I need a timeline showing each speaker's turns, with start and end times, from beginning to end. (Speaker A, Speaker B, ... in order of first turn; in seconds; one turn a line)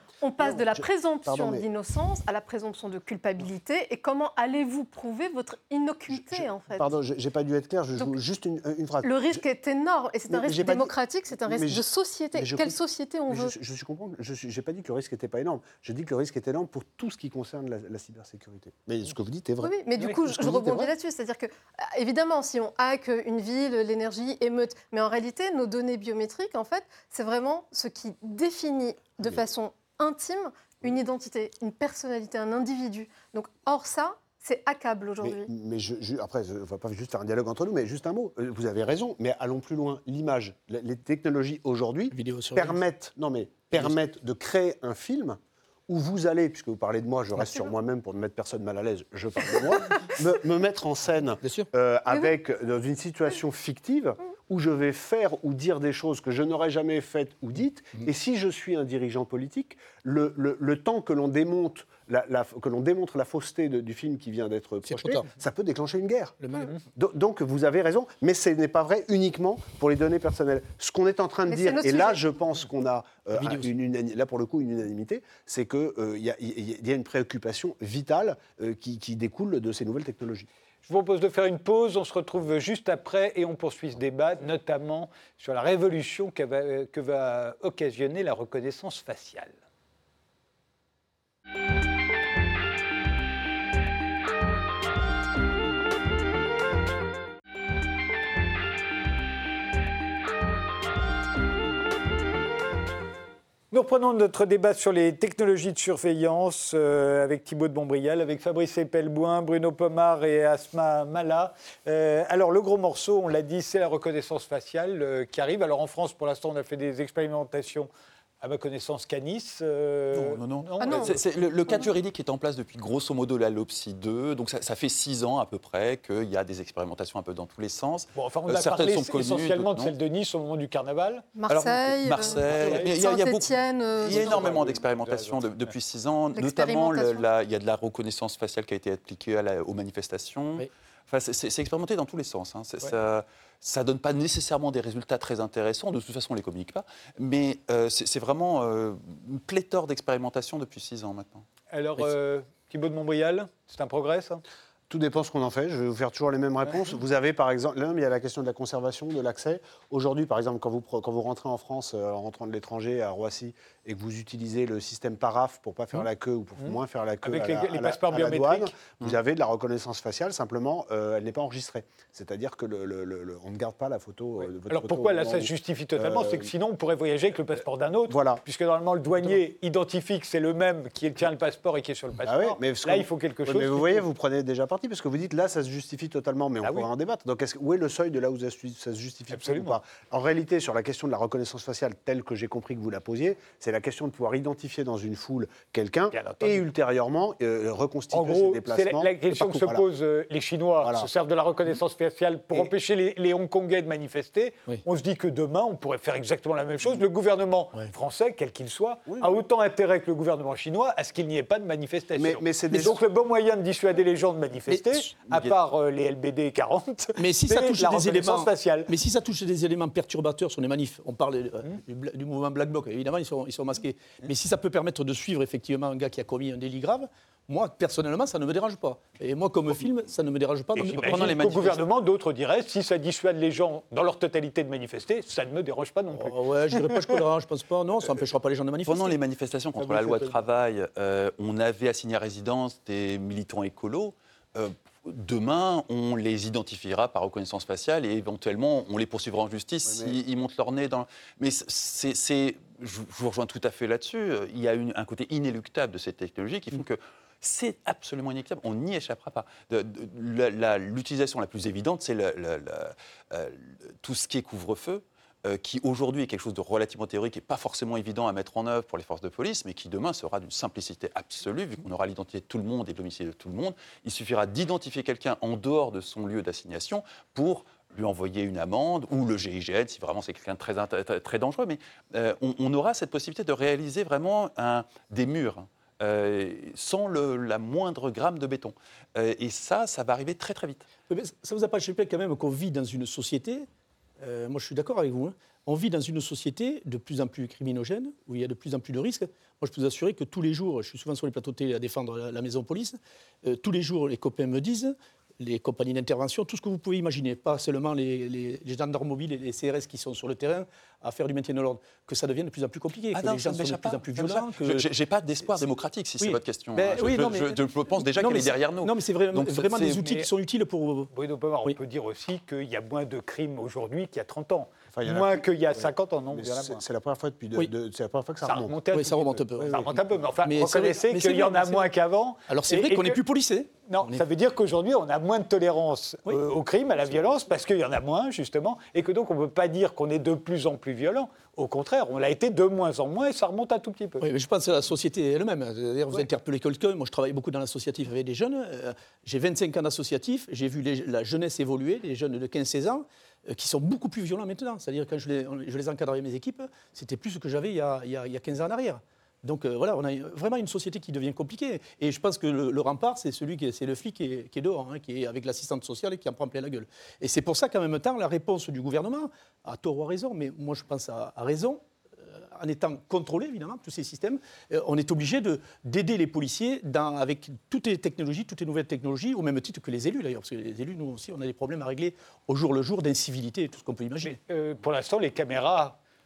Speaker A: 0.2-6.9
Speaker B: 0.4-1.7
Speaker B: 6.1-9.4
Speaker A: 9.0-13.5
Speaker B: 10.3-10.9
Speaker B: 11.5-11.8
Speaker B: 12.4-20.9
Speaker A: 19.6-35.5
Speaker B: 35.2-80.5
Speaker C: 42.1-42.8
Speaker C: 51.4-51.7
Speaker C: 64.8-65.3
Speaker C: 66.4-66.7
Speaker A: 71.5-72.2
Speaker C: 73.3-73.7
Speaker D: 80.8-89.5
Speaker D: 103.7-117.9
Speaker D: 118.4-121.2
Speaker E: 120.1-129.9
Speaker A: 120.8-121.2
Speaker D: 128.1-131.3
Speaker A: 131.3-134.6
Speaker E: 131.5-151.4
Speaker D: 132.3-133.0
Speaker D: 134.1-135.7
Speaker A: 136.3-137.2
Speaker D: 151.7-154.4
Speaker B: 154.9-176.5
Speaker D: 166.7-168.8
Speaker D: 174.7-184.0
Speaker B: 178.1-178.4
Speaker B: 182.2-199.8
Speaker D: 189.3-189.8
Speaker D: 196.1-196.6
Speaker D: 198.1-218.9
Speaker B: 200.8-201.1
Speaker B: 209.1-209.4
Speaker B: 212.2-213.0
Speaker C: 214.7-215.1
Speaker E: 215.2-215.5
Speaker C: 217.2-231.4
Speaker D: 230.8-237.0
Speaker E: 230.8-231.8
Speaker C: 236.1-239.2
Speaker E: 238.9-290.9
Speaker D: 239.8-240.4
Speaker B: 249.8-250.2
Speaker C: 291.1-293.7
Speaker C: 294.2-314.9
Speaker E: 313.1-320.1
Speaker C: 316.2-321.1
Speaker D: 321.1-326.8
Speaker B: 324.9-328.7
Speaker D: 328.4-333.2
Speaker C: 328.9-331.9
Speaker B: 329.6-329.9
Speaker C: 332.5-334.2
Speaker D: 333.9-344.2
Speaker C: 344.2-384.4
Speaker D: 384.2-386.0